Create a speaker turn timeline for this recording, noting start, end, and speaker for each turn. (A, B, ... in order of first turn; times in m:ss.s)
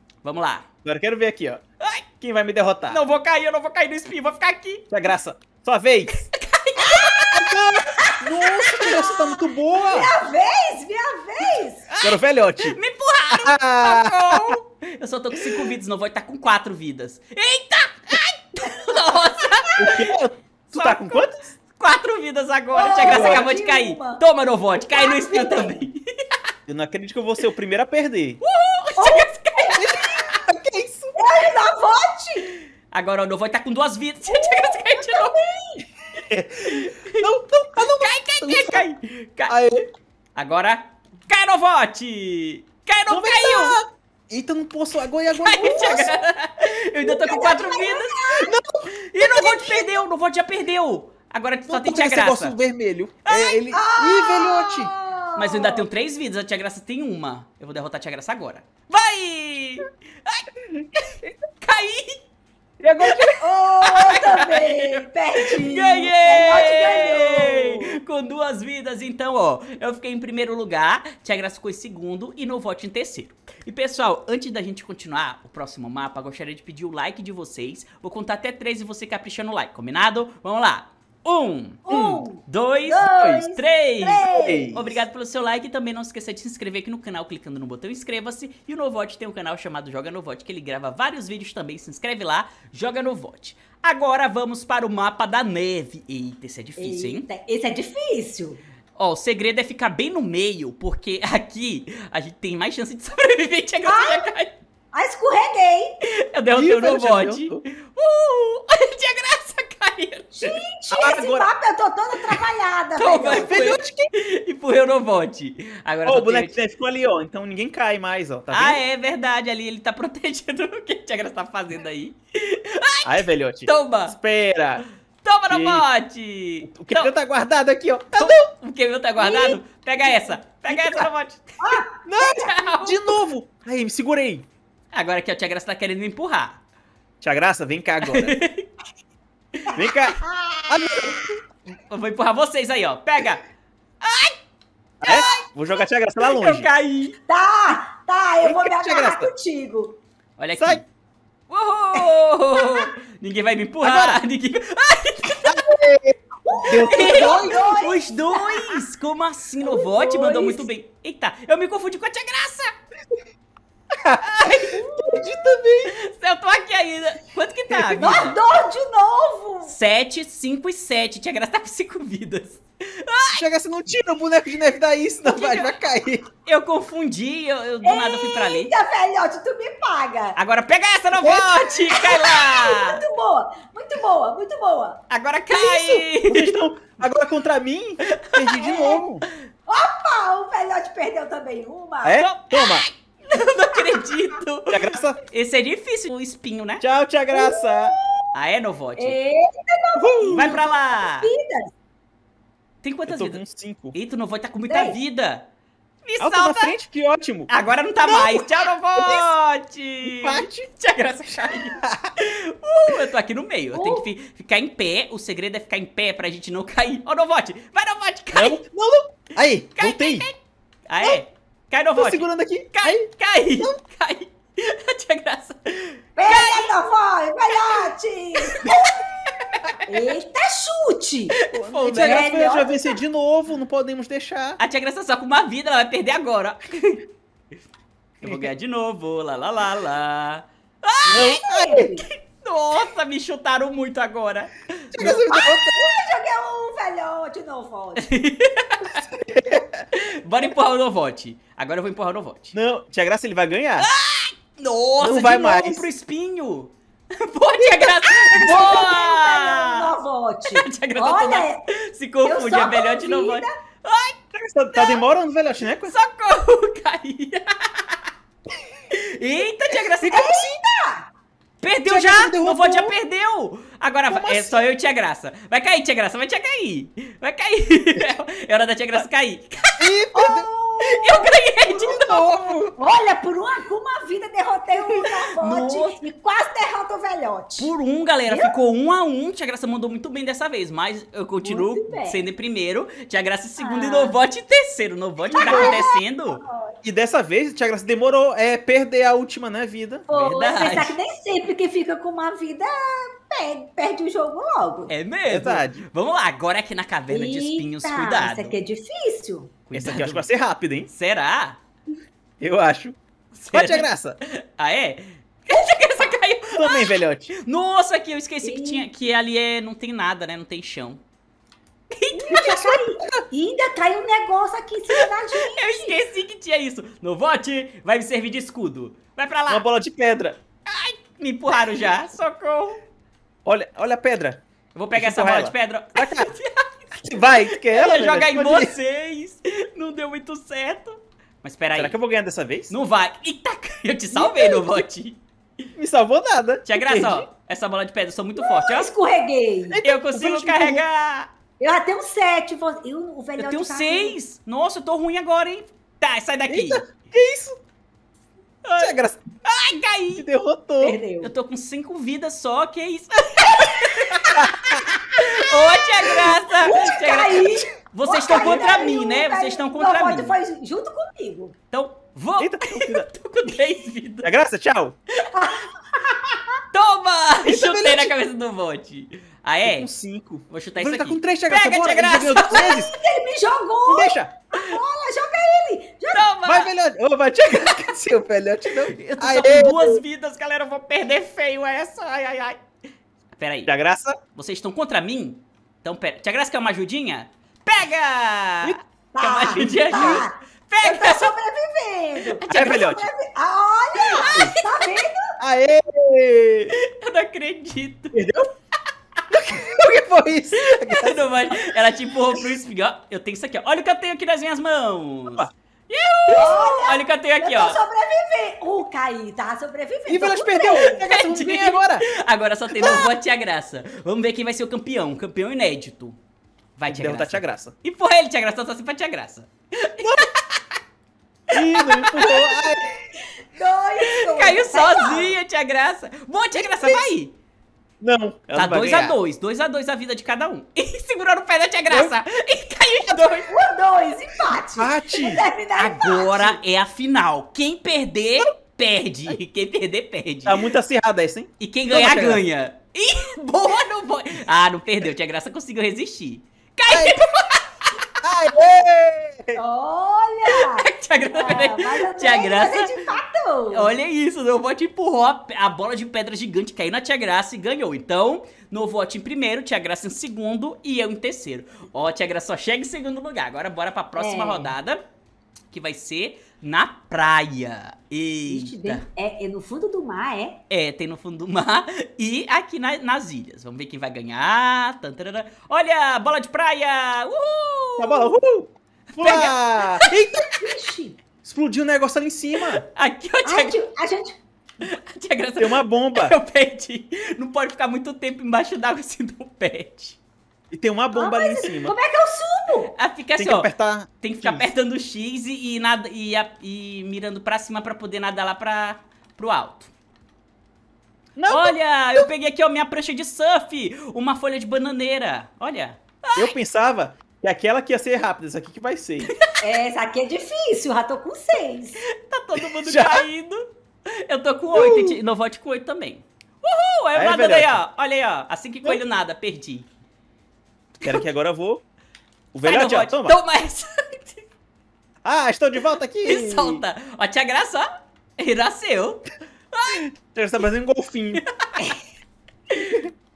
0:00.2-0:00.6 A
0:00.8-0:01.6 B
0:02.2-0:03.0 B
0:02.9-0:04.8 A
0:04.9-0:06.2 B
0:06.1-0:07.5 A
0:07.3-0:10.1 B
0:08.6-0:08.9 A
0:09.8-0:11.8 C
0:11.9-0:20.0 A
0:12.0-0:12.8 B
0:13.3-0:14.6 B
0:19.8-0:21.4 B
0:20.7-0:26.4 A
0:22.7-0:24.2 C
0:23.0-0:23.5 B
0:24.9-0:25.8 C
0:26.7-0:28.4 B
0:28.4-0:30.4 A
0:29.0-0:30.1 C
0:29.6-0:31.2 B
0:31.2-0:32.5 C
0:32.9-0:35.4 A
0:34.3-0:35.8 C
0:36.2-0:38.8 B
0:36.6-0:39.5 A
0:39.5-0:39.9 B
0:40.3-0:43.8 A
0:43.1-0:46.1 B
0:45.4-0:48.1 A
0:47.0-0:48.6 C
0:48.3-0:49.8 B
0:49.0-0:52.6 A
0:51.7-0:54.9 B
0:53.2-0:53.6 A
0:53.7-0:55.8 C
0:55.4-1:02.2 A
1:02.8-1:03.4 B
1:03.0-1:03.3 A
1:03.4-1:08.0 C
1:03.8-1:21.8 A
1:21.8-1:24.7 C
1:21.9-1:22.2 B
1:22.4-1:37.2 A
1:24.2-1:25.0 B
1:36.8-1:38.6 C
1:39.0-1:44.6 A
1:43.8-1:44.3 C
1:44.9-1:46.0 C
1:46.2-1:50.6 A
1:46.5-1:47.6 B
1:50.3-1:53.8 C
1:50.9-1:51.5 B
1:53.0-1:56.6 A
1:53.3-1:54.1 B
1:56.0-1:58.8 B
1:58.5-2:04.1 A
2:03.0-2:04.8 B
2:05.2-2:07.1 A
2:05.5-2:05.8 B
2:06.6-2:08.4 B
2:08.1-2:13.1 A
2:09.2-2:09.6 C
2:10.6-2:11.1 B
2:11.6-2:12.5 C
2:12.0-2:14.4 B
2:14.9-2:16.6 A
2:17.2-2:18.4 B
2:18.0-2:18.7 A
2:19.7-2:21.2 B
2:20.2-2:21.0 C
2:21.7-2:23.4 A
2:24.0-2:24.4 A
2:25.0-2:26.7 B
2:25.0-2:25.4 A
2:26.2-2:27.2 A
2:27.3-2:29.9 C
2:28.4-2:29.3 B
2:30.4-2:30.8 A
2:30.5-2:30.8 B
2:31.5-2:35.6 A
2:33.8-2:34.2 B
2:35.4-2:37.6 B
2:36.4-2:38.8 C
2:36.9-2:42.7 A
2:39.6-2:40.7 C
2:43.9-2:44.2 B
2:44.2-2:44.8 A
2:44.7-2:45.4 C
2:44.9-2:45.9 B
2:45.9-2:48.4 A
2:47.7-2:48.2 B
2:48.0-2:49.7 C
2:49.7-2:53.4 A
2:53.3-2:56.2 B
2:56.4-2:58.7 A
2:57.8-3:00.4 C
3:00.4-3:03.0 A
3:01.2-3:05.0 C
3:05.1-3:06.5 A
3:05.5-3:09.2 B
3:08.0-3:08.4 A
3:08.5-3:09.0 C
3:09.7-3:12.2 C
3:12.0-3:12.8 B
3:12.2-3:16.8 A
3:14.7-3:15.2 B
3:16.8-3:18.0 B
3:17.3-3:17.9 C
3:18.3-3:19.2 A
3:19.0-3:21.7 C
3:19.9-3:20.6 B
3:20.3-3:21.3 A
3:22.8-3:23.4 A
3:23.1-3:23.9 B
3:23.9-3:25.4 A
3:24.7-3:25.0 C
3:26.0-3:26.7 A
3:26.2-3:27.5 B
3:27.5-3:38.6 A
3:28.0-3:29.3 B
3:30.0-3:30.7 B
3:31.7-3:32.1 B
3:33.7-3:34.1 C
3:38.3-3:40.2 B
3:39.7-3:40.4 A
3:40.9-3:46.7 A
3:42.0-3:43.7 B
3:46.2-3:48.9 C
3:48.4-3:49.9 A
3:49.9-3:51.4 C
3:51.4-3:52.4 A
3:51.5-3:54.6 B
3:51.9-3:52.9 C
3:54.6-3:57.0 A
3:58.2-4:01.3 A
3:58.2-3:58.5 B
4:01.0-4:02.0 C
4:01.1-4:01.9 B
4:02.0-4:04.6 A
4:04.9-4:05.9 B
4:05.0-4:08.1 C
4:08.0-4:09.0 A
4:09.2-4:09.8 B
4:09.9-4:12.5 A
4:12.5-4:13.9 B
4:13.8-4:19.9 A
4:15.0-4:15.9 B
4:17.6-4:18.6 B
4:18.3-4:21.7 C
4:20.5-4:24.2 A
4:22.2-4:23.5 C
4:24.3-4:25.9 B
4:24.7-4:25.0 A
4:25.9-4:28.0 A
4:28.9-4:30.5 A
4:30.1-4:31.1 C
4:31.6-4:39.9 A
4:31.8-4:32.9 B
4:34.1-4:34.6 B
4:39.8-4:40.5 B
4:40.1-4:41.7 C
4:40.8-4:42.6 A
4:41.7-4:42.8 B
4:42.8-4:47.7 C
4:45.4-4:46.0 A
4:47.6-4:56.4 A
4:48.3-4:48.5 C
4:51.4-4:52.2 C
4:53.6-4:54.2 C
4:55.3-4:56.7 C
4:55.4-4:55.8 B
4:56.8-5:00.0 B
5:00.1-5:04.9 C
5:00.1-5:01.0 A
5:04.9-5:08.6 A
5:05.3-5:05.9 B
5:07.1-5:09.5 C
5:09.7-5:10.3 A
5:09.7-5:10.9 B
5:10.9-5:11.6 A
5:12.4-5:13.0 B
5:13.3-5:13.9 A
5:13.5-5:14.2 B
5:14.5-5:21.0 A
5:16.5-5:17.3 B
5:18.4-5:18.9 C
5:21.9-5:22.6 A
5:22.1-5:26.0 C
5:22.3-5:23.2 B
5:24.9-5:29.6 A
5:29.5-5:30.4 B
5:30.7-5:32.8 A
5:33.4-5:34.4 B
5:34.7-5:36.6 A
5:34.9-5:36.3 B
5:37.0-5:38.7 B
5:37.6-5:42.0 A
5:41.8-5:42.7 B
5:42.7-5:45.2 A
5:44.2-5:44.8 B
5:45.8-5:47.3 B
5:46.6-5:48.9 A
5:48.4-5:49.8 C
5:49.7-5:50.8 B
5:49.8-5:51.3 A
5:51.6-5:54.2 C
5:53.4-5:56.8 A
5:56.5-5:57.6 B
5:58.6-5:58.9 A
5:58.8-5:59.2 B
5:59.4-6:00.2 A
6:00.2-6:01.0 B
6:00.8-6:01.3 C
6:01.2-6:10.4 A
6:04.3-6:04.9 B
6:06.6-6:11.5 C
6:11.7-6:14.3 A
6:12.4-6:13.1 B
6:14.2-6:15.0 B
6:15.3-6:16.5 C
6:16.7-6:19.9 A
6:17.4-6:18.1 B
6:19.6-6:22.9 B
6:20.5-6:22.8 A
6:22.4-6:26.2 C
6:23.8-6:24.3 B
6:26.1-6:26.7 A
6:26.4-6:30.0 B
6:28.9-6:32.6 A
6:33.3-6:33.7 A
6:33.7-6:34.2 B
6:34.3-6:41.3 A
6:39.1-6:45.4 C
6:39.5-6:40.2 B
6:42.3-6:42.8 A
6:42.5-6:43.1 B
6:44.0-6:44.9 A
6:45.4-6:46.7 B
6:46.8-6:48.1 A
6:48.1-6:48.5 B
6:49.3-6:51.7 B
6:50.6-6:57.8 A
6:56.3-7:01.1 C
7:00.1-7:02.0 B
7:01.1-7:06.2 A
7:02.7-7:03.1 B
7:06.8-7:10.8 A
7:06.9-7:07.7 B
7:11.5-7:13.0 B
7:11.5-7:12.4 A
7:13.5-7:15.4 C
7:14.1-7:17.3 A
7:16.6-7:17.1 B
7:18.0-7:19.2 B
7:18.5-7:23.5 A
7:21.9-7:22.1 B
7:23.5-7:26.6 C
7:24.7-7:25.4 B
7:25.8-7:30.7 A
7:30.4-7:32.4 B
7:31.6-7:38.0 A
7:36.9-7:37.2 B
7:38.2-7:39.6 B
7:39.6-7:43.9 C
7:40.5-7:43.0 A
7:43.7-7:55.0 A
7:54.2-7:54.7 C
7:55.7-7:59.0 A
7:58.4-8:00.6 C
8:00.7-8:08.3 A
8:08.0-8:10.1 B
8:09.1-8:10.4 A
8:10.6-8:11.2 C
8:11.4-8:12.8 B
8:12.6-8:13.8 A
8:13.4-8:14.4 C
8:14.8-8:20.2 A
8:15.6-8:16.4 B
8:20.7-8:21.9 B
8:21.1-8:22.9 C
8:22.9-8:23.7 A
8:23.4-8:24.7 B
8:24.2-8:29.9 A
8:31.4-8:32.3 B
8:31.5-8:36.5 A
8:36.3-8:39.3 B
8:39.3-8:39.6 A
8:39.6-8:42.0 C
8:42.0-8:43.6 A
8:42.8-8:43.2 B
8:44.2-8:49.9 A
8:44.7-8:45.2 B
8:47.1-8:47.8 B
8:51.0-8:51.8 B
8:52.5-8:53.4 B
8:52.6-8:54.4 A
8:55.2-8:56.8 B
8:56.2-9:00.0 A
9:00.1-9:01.4 B
9:01.5-9:01.8 A
9:02.7-9:03.0 A